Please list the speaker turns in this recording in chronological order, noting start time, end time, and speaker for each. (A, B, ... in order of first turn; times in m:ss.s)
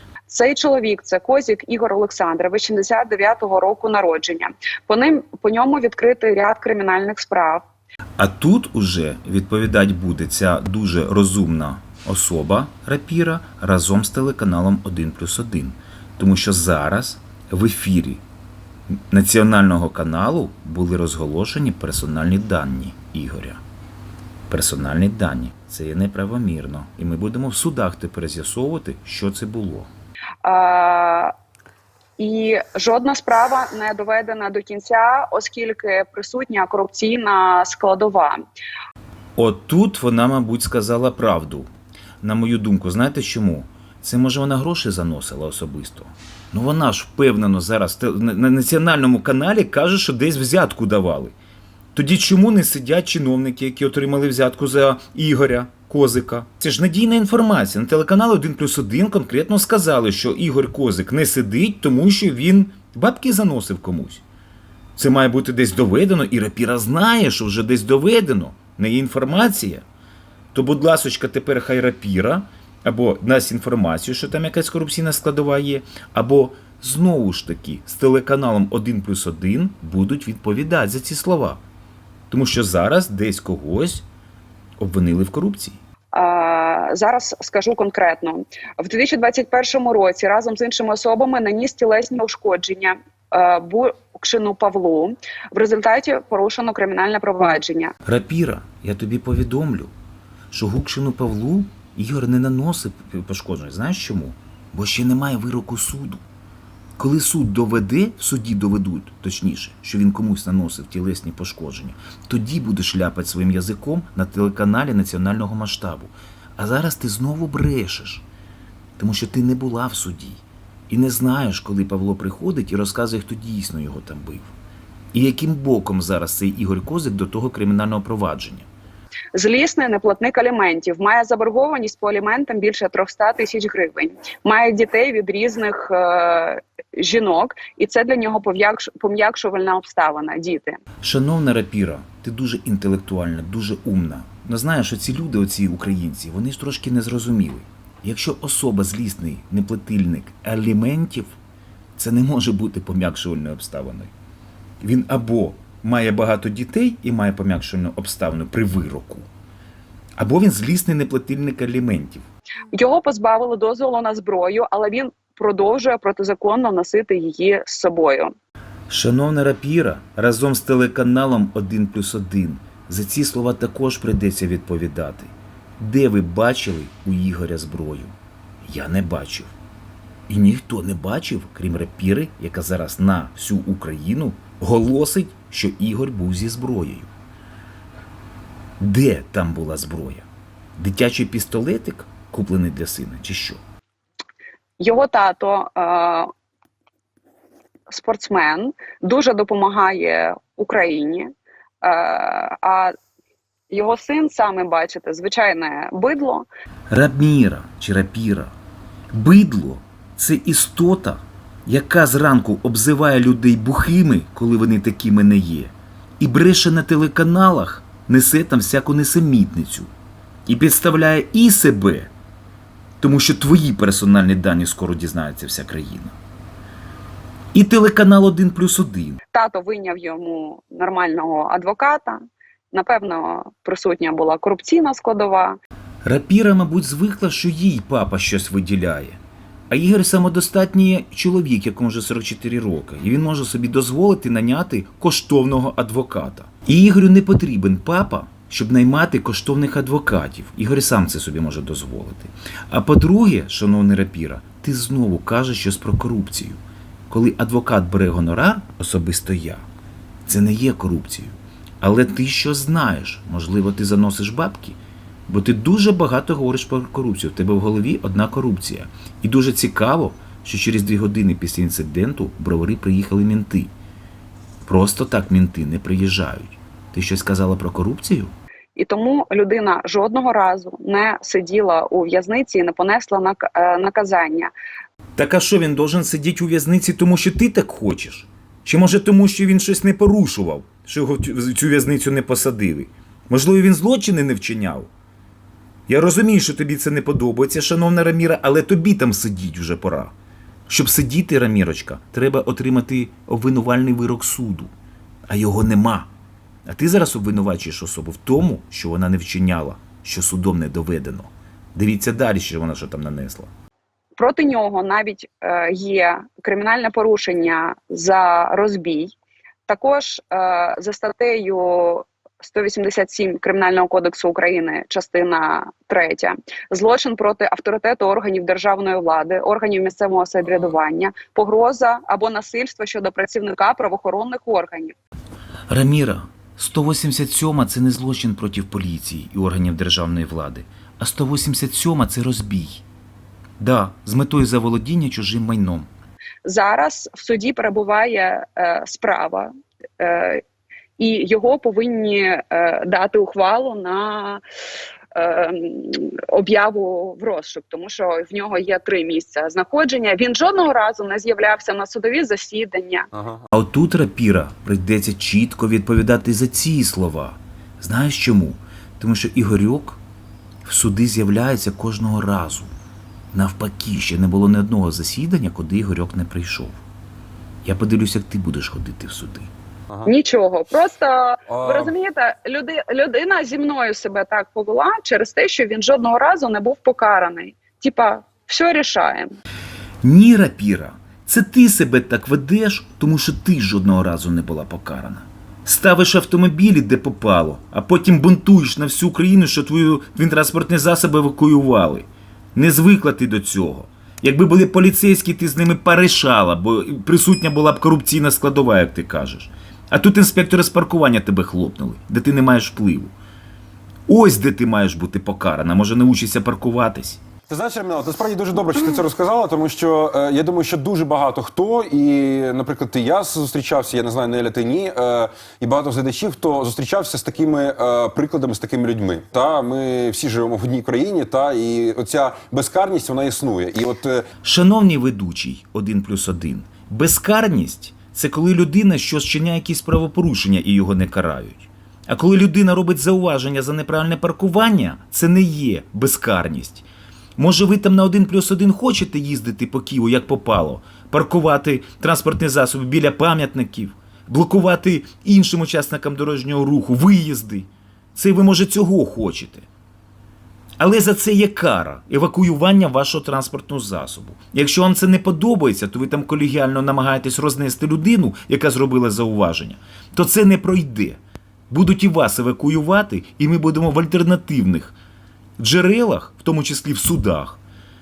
0:00.3-0:07.6 A
0:08.2-0:18.2 B
0:19.1-0:23.6 B
0:24.5-0:29.9 B
0:30.4-0:31.3 A
0:32.2-0:38.4 A
0:39.4-0:41.7 B
0:42.2-0:51.3 B
0:51.9-1:04.2 B
1:05.0-1:09.8 B
1:10.5-1:21.6 B
1:22.3-1:24.0 B
1:24.8-1:25.8 B
1:26.1-1:37.9 A
1:38.0-1:39.9 B
1:40.5-1:46.2 B
1:47.0-1:58.2 B
1:59.0-2:04.5 B
2:05.1-2:08.7 B
2:09.3-2:20.8 A
2:21.0-2:31.4 B
2:32.0-2:34.1 B
2:34.8-2:39.3 B
2:40.2-2:42.2 B
2:42.7-2:48.3 A
2:48.9-2:58.1 B
2:58.6-2:59.5 B
3:00.3-3:07.1 B
3:08.8-3:10.2 B
3:10.8-3:13.6 B
3:14.8-3:16.3 A
3:17.9-3:21.3 A
3:21.8-3:22.9 A
3:23.7-3:26.4 A
3:26.9-3:28.5 B
3:29.1-3:39.9 B
3:40.5-3:42.1 B
3:43.0-3:46.1 B
3:47.5-3:49.2 B
3:49.3-3:52.2 A
3:52.7-3:55.6 A
3:56.0-4:19.6 B
4:20.3-4:33.7 B
4:34.6-4:38.3 B
4:38.8-4:44.5 A
4:45.2-4:54.9 B
4:55.9-5:00.1 B
5:00.7-5:04.7 B
5:05.3-5:06.1 B
5:06.7-5:13.5 B
5:14.2-5:19.1 A
5:19.7-5:34.9 A
5:35.7-5:42.8 B
5:43.6-5:45.9 B
5:46.4-5:50.4 A
5:51.0-5:54.4 A
5:55.1-6:03.1 A
6:03.1-6:03.4 C
6:03.5-6:10.0 B
6:10.6-6:12.7 B
6:13.3-6:16.8 B
6:17.6-6:19.5 B
6:20.0-6:29.3 A
6:21.5-6:21.9 C
6:30.0-6:53.1 B
6:54.1-6:57.2 B
6:57.5-7:14.2 C
7:14.4-7:26.8 B
7:27.4-7:39.6 B
7:40.8-7:55.0 B
7:55.6-7:57.6 B